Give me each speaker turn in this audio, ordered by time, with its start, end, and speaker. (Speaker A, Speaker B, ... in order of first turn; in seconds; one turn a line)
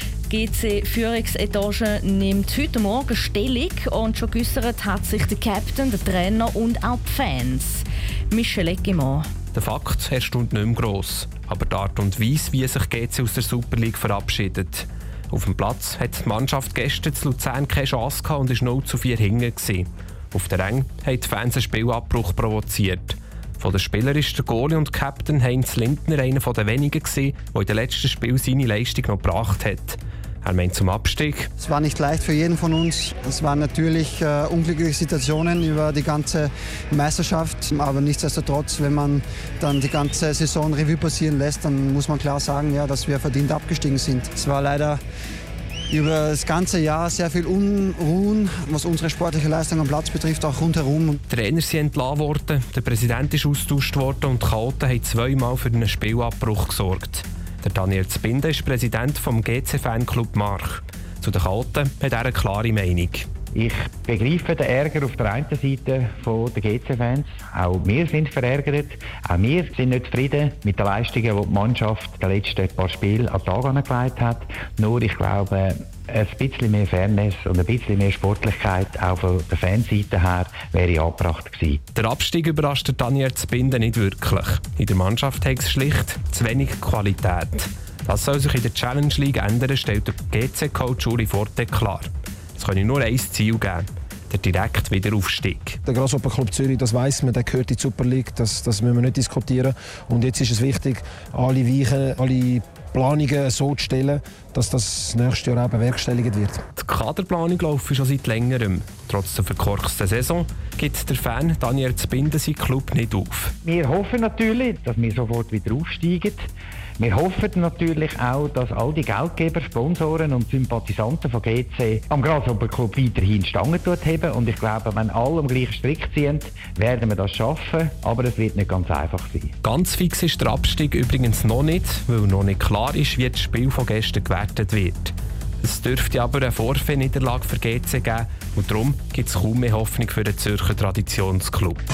Speaker A: 0.3-9.3
Speaker B: 9.5-31.5
Speaker C: 31.6-45.0
Speaker C: 45.9-51.2
Speaker B: 51.3-63.3
Speaker D: 63.5-81.8
Speaker B: 82.0-95.8
Speaker E: 95.8-106.6
Speaker B: 106.8-113.5
Speaker D: 113.6-116.5
Speaker D: 117.0-129.5
Speaker B: 129.6-141.8